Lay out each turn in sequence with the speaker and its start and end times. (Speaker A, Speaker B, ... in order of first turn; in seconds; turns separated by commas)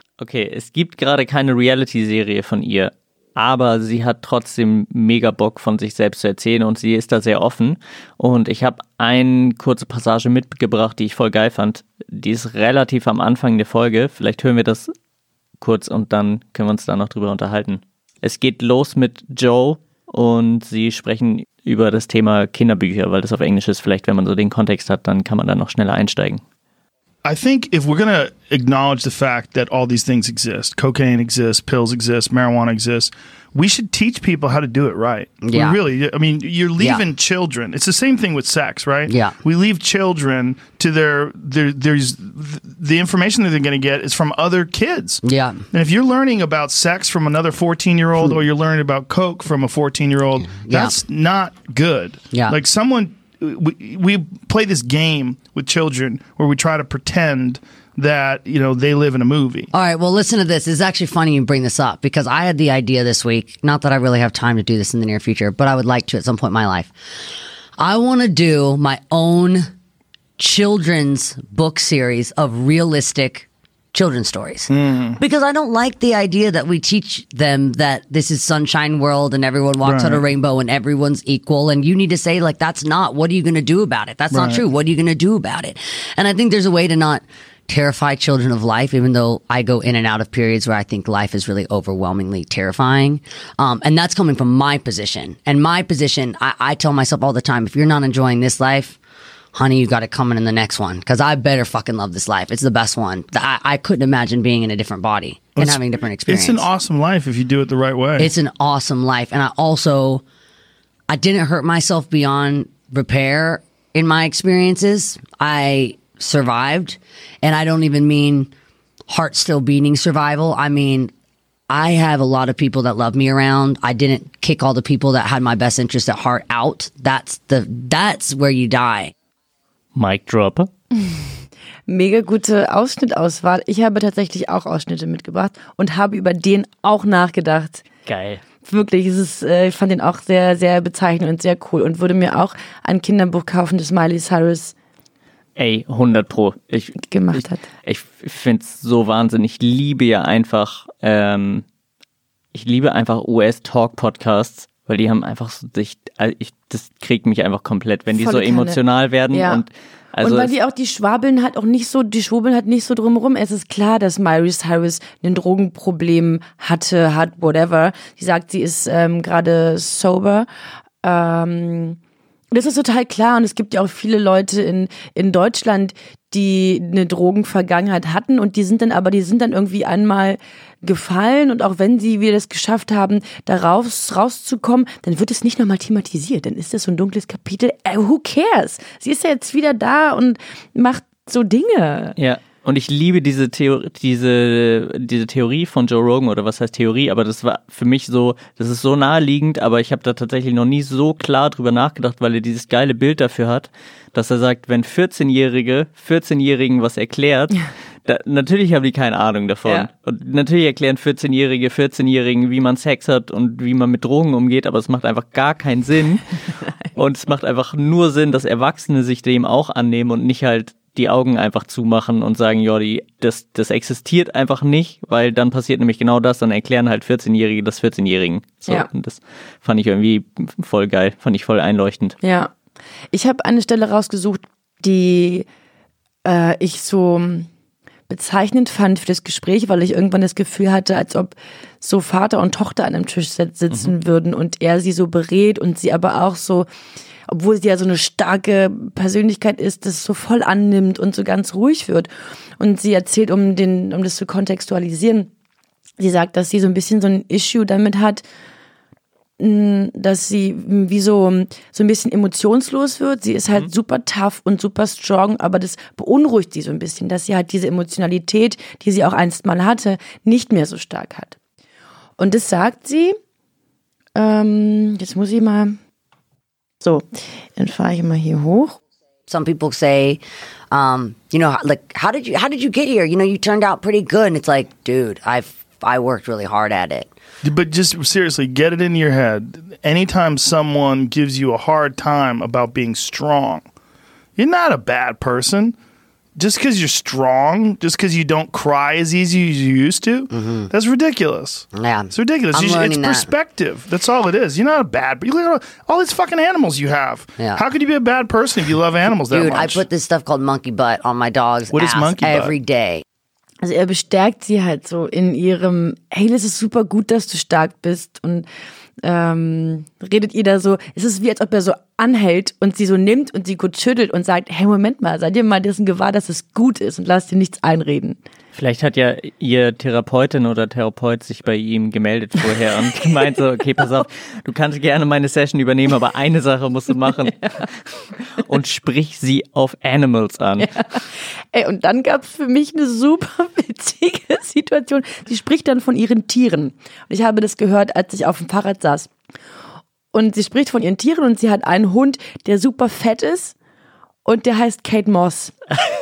Speaker A: 0.2-14.9, Speaker A: 15.6-26.4, Speaker B: 27.2-59.7, Speaker C: 35.4-35.8, Speaker C: 39.1-39.4, Speaker C: 45.2-45.6, Speaker C: 50.5-50.9, Speaker C: 59.7-66.9, Speaker C: 67.8-69.7, Speaker C: 70.4-99.0, Speaker B: 74.7-75.2, Speaker B: 79.8-80.2, Speaker B: 84.3-84.6, Speaker C: 99.5-106.7, Speaker B: 105.6-108.3, Speaker C: 108.2-110.2, Speaker C: 111.1-118.5, Speaker C: 119.1-121.1, Speaker C: 121.7-129.1, Speaker A: 129.9-130.7, Speaker D: 131.0-131.2, Speaker D: 131.9-137.8, Speaker A: 138.1-138.4, Speaker D: 138.6-144.7, Speaker A: 145.6-151.7, Speaker D: 147.0-147.6, Speaker A: 152.5-160.5, Speaker D: 158.1-158.8, Speaker D: 159.3-159.6, Speaker D: 160.2-170.5, Speaker D: 171.0-172.0, Speaker D: 172.5-192.1, Speaker A: 192.2-216.4, Speaker A: 216.9-232.2, Speaker D: 232.2-232.5, Speaker D: 233.1-235.4, Speaker D: 236.2-237.5, Speaker D: 238.1-246.7, Speaker D: 247.3-255.3, Speaker D: 256.0-258.2, Speaker D: 259.4-271.4, Speaker D: 272.2-273.2, Speaker D: 274.1-275.8, Speaker D: 276.8-278.8, Speaker C: 279.3-280.2, Speaker C: 280.7-287.1, Speaker B: 287.4-293.6, Speaker B: 294.4-295.8, Speaker B: 296.4-309.8, Speaker C: 300.3-300.7, Speaker C: 301.7-303.3, Speaker C: 309.3-313.0, Speaker B: 311.7-312.5, Speaker D: 313.6-318.5, Speaker D: 319.0-328.2, Speaker A: 328.5-340.7, Speaker D: 340.6-349.1, Speaker D: 350.1-353.5, Speaker D: 354.2-355.6